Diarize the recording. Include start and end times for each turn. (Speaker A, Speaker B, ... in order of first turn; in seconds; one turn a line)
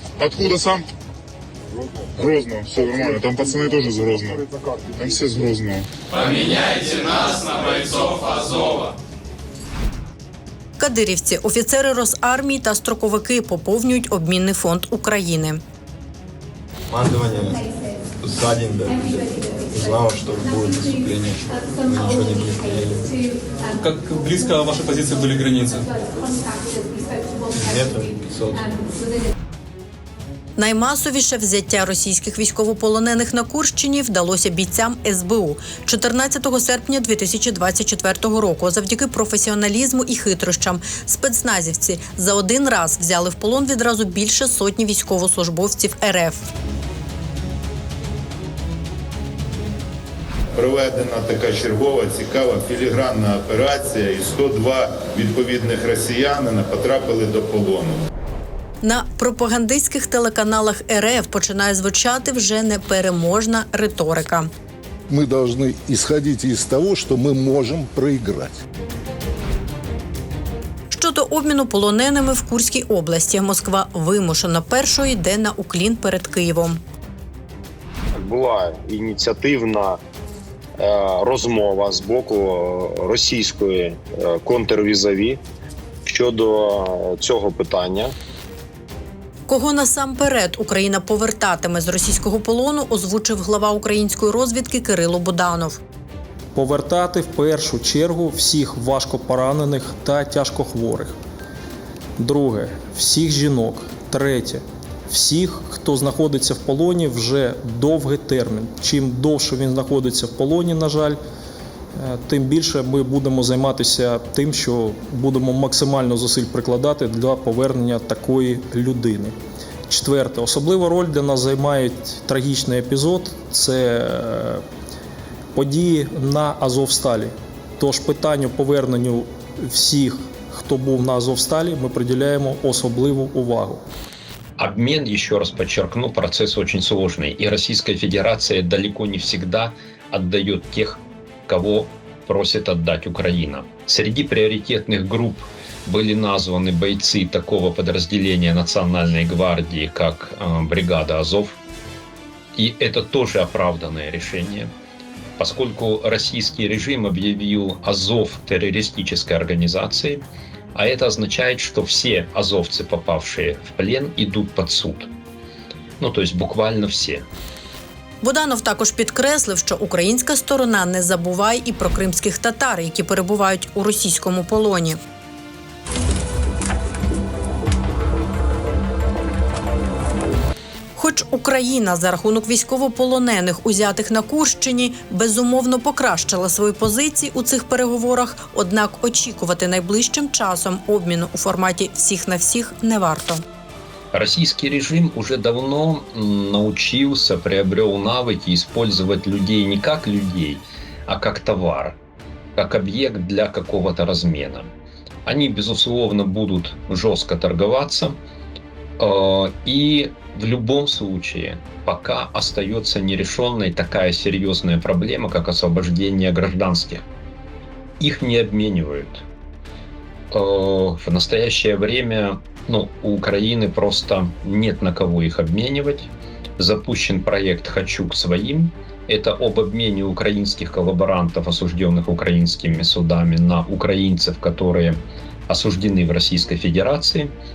Speaker A: 0.2-0.8
Speaker A: 2.2-4.4
Speaker A: 5.0-6.6
Speaker B: 6.6-8.9
Speaker C: 10.8-15.6
Speaker D: 16.9-17.6
Speaker D: 18.2-23.0
Speaker B: 23.7-25.9
Speaker D: 27.7-28.6
Speaker C: 30.6-46.5
Speaker E: 50.6-58.0
Speaker C: 58.8-64.5
Speaker F: 65.1-68.6
Speaker C: 70.9-76.8
Speaker G: 78.2-80.0
Speaker G: 80.8-85.4
Speaker G: 86.1-88.1
Speaker C: 89.5-95.8
Speaker H: 96.5-101.1
Speaker H: 102.2-111.2
Speaker H: 112.0-119.3
Speaker H: 119.9-124.6
Speaker H: 125.5-133.8
Speaker I: 134.6-151.6
Speaker I: 152.6-154.7
Speaker I: 155.4-160.2
Speaker I: 160.8-165.1
Speaker I: 166.0-167.2
Speaker C: 168.2-175.0
Speaker C: 180.9-193.4
Speaker I: 194.1-202.0
Speaker I: 202.6-204.7
Speaker I: 205.3-208.2
Speaker I: 209.0-217.0
Speaker I: 218.0-219.3
Speaker I: 220.3-237.3